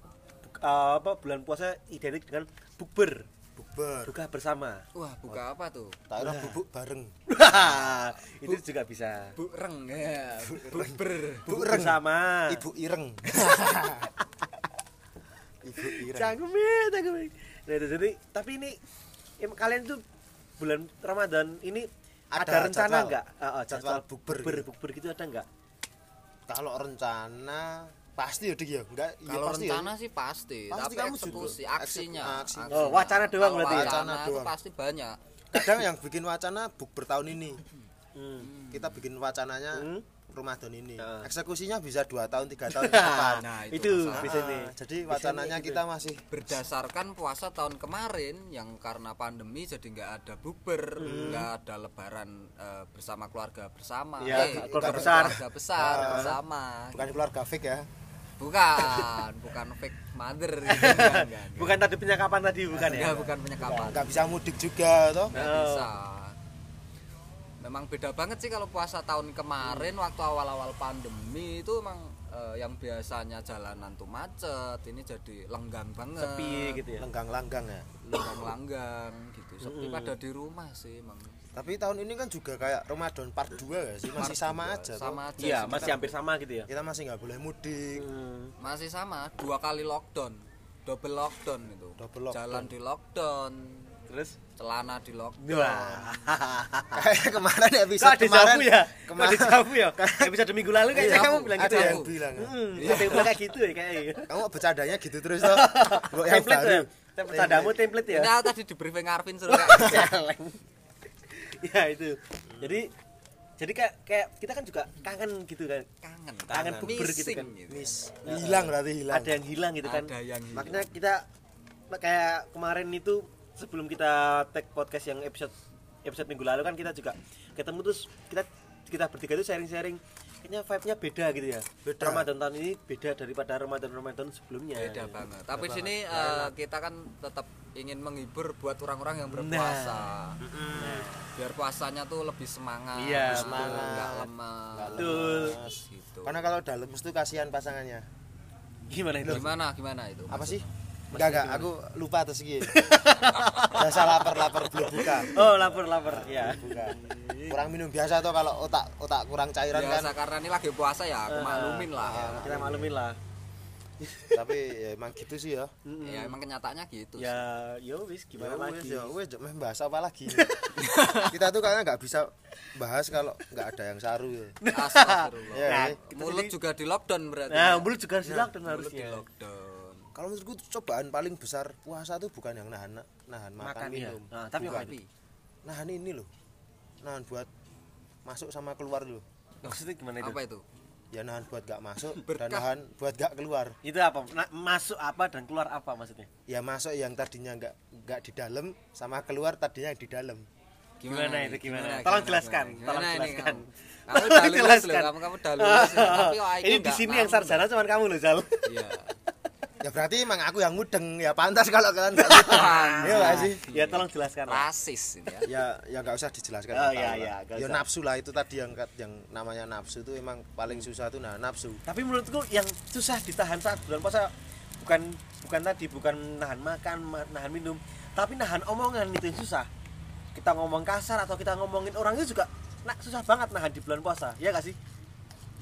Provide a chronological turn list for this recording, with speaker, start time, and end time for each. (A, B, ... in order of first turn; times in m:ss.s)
0:00.4-0:03.3 A
0:03.6-0:04.1 B
0:04.1-0:04.8 A
0:05.0-0:06.0 C
0:06.1-0:07.2 B
0:06.2-0:06.6 A
0:07.3-0:09.4 A
0:09.4-0:11.6 C
0:10.5-0:14.1 B
0:11.5-0:12.6 A
0:15.6-0:16.4 B
0:15.8-0:18.8 A
0:19.4-0:20.0 A
0:20.6-0:25.5 A
0:22.3-0:23.2 B
0:23.7-0:24.7 B
0:26.5-0:29.9 B
0:29.3-0:35.2 C
0:30.7-0:34.5 B
0:32.7-0:34.0 A
0:35.5-0:37.6 B
0:38.2-0:38.5 A
0:38.4-0:39.0 C
0:38.7-0:43.5 B
0:39.7-0:40.0 A
0:41.0-0:41.3 A
0:42.7-0:45.8 A
0:43.4-0:44.5 C
0:44.1-0:46.5 B
0:46.3-0:57.1 C
0:51.0-0:51.5 A
0:51.0-0:51.4 B
0:54.2-0:55.4 A
0:54.3-0:56.4 B
0:55.9-0:56.3 A
0:56.9-0:57.9 B
0:58.4-1:01.8 C
1:00.7-1:04.0 A
1:02.7-1:04.1 C
1:03.8-1:05.4 B
1:05.3-1:06.4 C
1:05.3-1:05.9 A
1:07.6-1:16.8 C
1:09.6-1:09.9 A
1:16.2-1:17.1 A
1:17.0-1:18.2 B
1:18.0-1:21.4 C
1:19.6-1:20.1 A
1:21.5-1:25.8 B
1:24.2-1:26.1 C
1:25.4-1:26.7 A
1:26.7-1:28.1 B
1:28.0-1:28.5 A
1:28.6-1:34.0 C
1:32.0-1:32.7 B
1:34.1-1:34.4 A
1:34.6-1:36.1 C
1:35.4-1:37.0 A
1:36.9-1:40.3 B
1:38.0-1:44.3 A
1:40.9-1:42.2 C
1:40.9-1:43.3 B
1:42.8-1:43.4 C
1:44.3-1:47.8 B
1:45.4-1:48.4 A
1:48.0-1:50.1 C
1:49.5-1:50.6 A
1:51.3-1:52.9 A
1:52.5-1:52.8 B
1:53.6-1:55.9 A
1:56.0-1:58.0 C
1:56.5-1:57.5 A
1:57.7-1:59.4 B
1:58.2-2:01.2 A
1:59.8-2:00.9 C
2:01.9-2:15.2 A
2:11.8-2:12.3 B
2:14.8-2:20.4 C
2:15.5-2:16.5 B
2:19.3-2:20.1 A
2:20.4-2:21.1 B
2:20.7-2:21.3 A
2:21.4-2:26.4 C
2:23.0-2:24.0 A
2:23.2-2:28.1 B
2:25.0-2:25.6 A
2:28.9-2:29.5 A
2:29.2-2:29.5 B
2:29.2-2:30.7 C
2:30.3-2:32.9 B
2:31.1-2:31.7 A
2:32.6-2:37.5 A
2:33.7-2:37.0 B
2:37.5-2:40.1 B
2:39.7-2:42.5 C
2:41.3-2:43.2 A
2:42.0-2:43.0 B
2:44.0-2:44.4 A
2:44.3-2:45.7 B
2:45.8-2:46.4 A
2:46.0-2:47.4 C
2:47.2-2:49.1 A
2:48.4-2:50.6 B
2:50.3-2:50.8 A
2:50.8-2:51.4 C
2:51.2-2:54.6 B
2:54.6-2:56.5 A
2:54.7-2:57.9 C
2:55.5-2:56.0 B
2:57.5-2:59.2 A
2:58.2-2:58.5 B
2:58.6-3:00.1 C
3:00.1-3:04.9 B
3:03.6-3:05.0 A
3:04.6-3:05.1 C
3:05.6-3:06.3 B
3:07.0-3:07.5 B
3:08.2-3:09.2 B
3:09.6-3:10.4 A
3:09.6-3:10.6 C
3:11.1-3:13.8 B
3:12.2-3:12.7 C
3:13.8-3:16.3 A
3:16.5-3:20.5 B
3:21.0-3:27.7 C
3:21.1-3:28.7 A
3:28.6-3:29.2 C
3:29.8-3:33.6 B
3:32.2-3:34.6 A
3:32.3-3:35.5 C
3:35.4-3:41.8 B
3:36.7-3:37.9 A
3:41.9-3:49.7 A
3:50.3-3:54.8 A